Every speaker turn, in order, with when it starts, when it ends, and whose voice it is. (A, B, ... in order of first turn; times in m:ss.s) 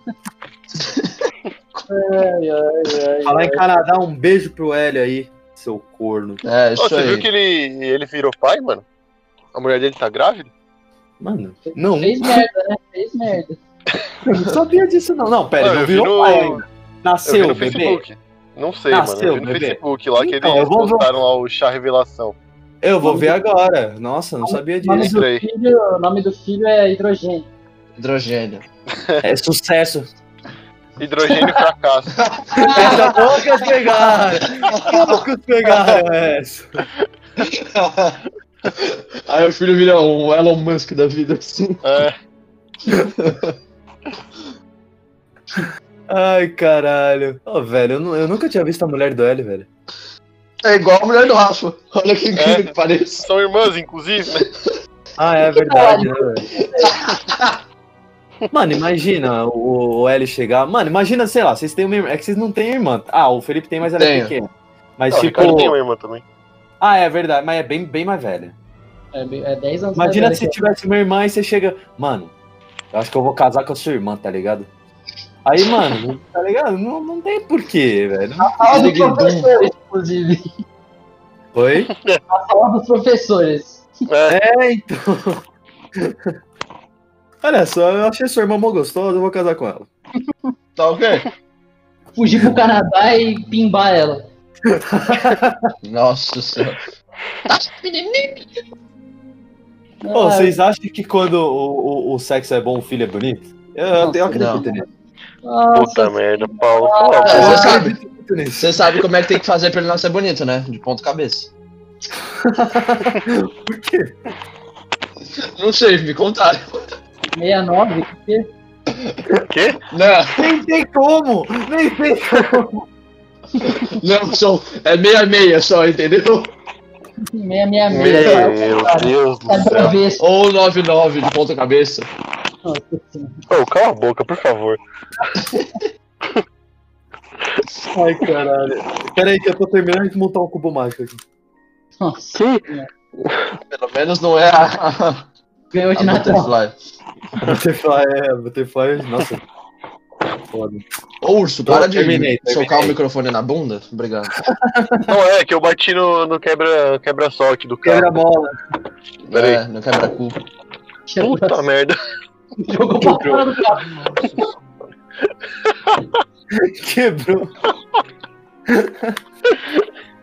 0:00.7-0:01.8 A
0:01.9-0:03.6 B
0:03.2-0:06.4 C
0:06.4-0:07.3 A
0:06.8-0:08.8 D
0:09.5-0:10.5 D
0:11.2-0:12.4 C
0:11.6-0:13.6 B
0:14.2-0:18.0 C
0:15.6-0:16.6 D
0:17.2-0:22.4 D
0:18.9-0:21.1 C
0:22.8-0:25.1 C
0:23.0-0:23.4 B
0:24.4-0:27.5 B
0:24.9-0:25.4 D
0:28.0-0:28.6 A
0:28.9-0:29.2 D
0:29.2-0:30.1 C
0:31.0-0:32.2 D
0:32.2-0:35.2 A
0:32.6-0:33.1 B
0:32.7-0:36.8 C
0:37.4-0:41.8 A
0:41.8-0:42.1 D
0:42.9-0:43.5 A
0:45.6-0:49.7 C
0:50.6-0:53.2 A
0:52.4-0:54.5 D
0:55.2-0:56.6 C
0:55.5-0:57.0 B
0:56.8-0:57.6 A
0:58.5-1:05.7 C
1:03.9-1:04.3 A
1:05.1-1:06.2 D
1:06.8-1:08.5 C
1:09.1-1:10.6 B
1:10.0-1:12.3 C
1:12.9-1:14.7 C
1:15.4-1:18.6 C
1:18.4-1:20.5 B
1:18.6-1:19.5 A
1:21.5-1:21.9 C
1:21.9-1:22.2 D
1:22.3-1:23.9 B
1:24.1-1:24.4 D
1:24.3-1:25.4 C
1:26.0-1:26.3 C
1:27.4-1:29.9 C
1:30.8-1:31.2 A
1:32.1-1:34.3 B
1:34.7-1:35.7 C
1:35.8-1:36.8 A
1:37.4-1:38.4 A
1:40.0-1:40.5 B
1:40.1-1:44.8 C
1:44.0-1:44.8 B
1:44.3-1:44.7 A
1:45.4-1:47.8 B
1:45.7-1:47.5 D
1:47.2-1:48.0 A
1:47.2-1:49.0 C
1:48.6-1:51.5 A
1:52.2-1:54.1 C
1:55.4-1:56.8 A
1:57.3-1:58.5 B
1:58.9-1:59.2 A
1:59.5-1:59.8 D
1:59.9-2:00.5 A
2:00.4-2:02.8 C
2:03.6-2:06.5 A
2:07.3-2:10.2 B
2:07.9-2:10.0 D
2:08.0-2:08.5 A
2:10.2-2:12.1 A
2:12.6-2:13.4 B
2:13.5-2:14.8 D
2:15.4-2:15.7 A
2:17.9-2:21.2 C
2:22.0-2:22.9 B
2:22.4-2:22.6 D
2:23.2-2:23.5 D
2:23.7-2:25.2 A
2:25.7-2:26.5 B
2:26.0-2:26.8 A
2:27.4-2:29.4 C
2:30.5-2:30.8 C
2:31.2-2:34.4 A
2:31.6-2:33.0 C
2:34.4-2:35.2 C
2:35.1-2:38.1 D
2:37.8-2:38.5 C
2:39.2-2:40.4 A
2:39.3-2:39.6 D
2:41.1-2:41.6 B
2:41.2-2:42.0 D
2:42.6-2:44.4 B
2:43.0-2:43.6 C
2:45.6-2:46.0 D
2:46.5-2:47.5 C
2:48.7-2:49.2 C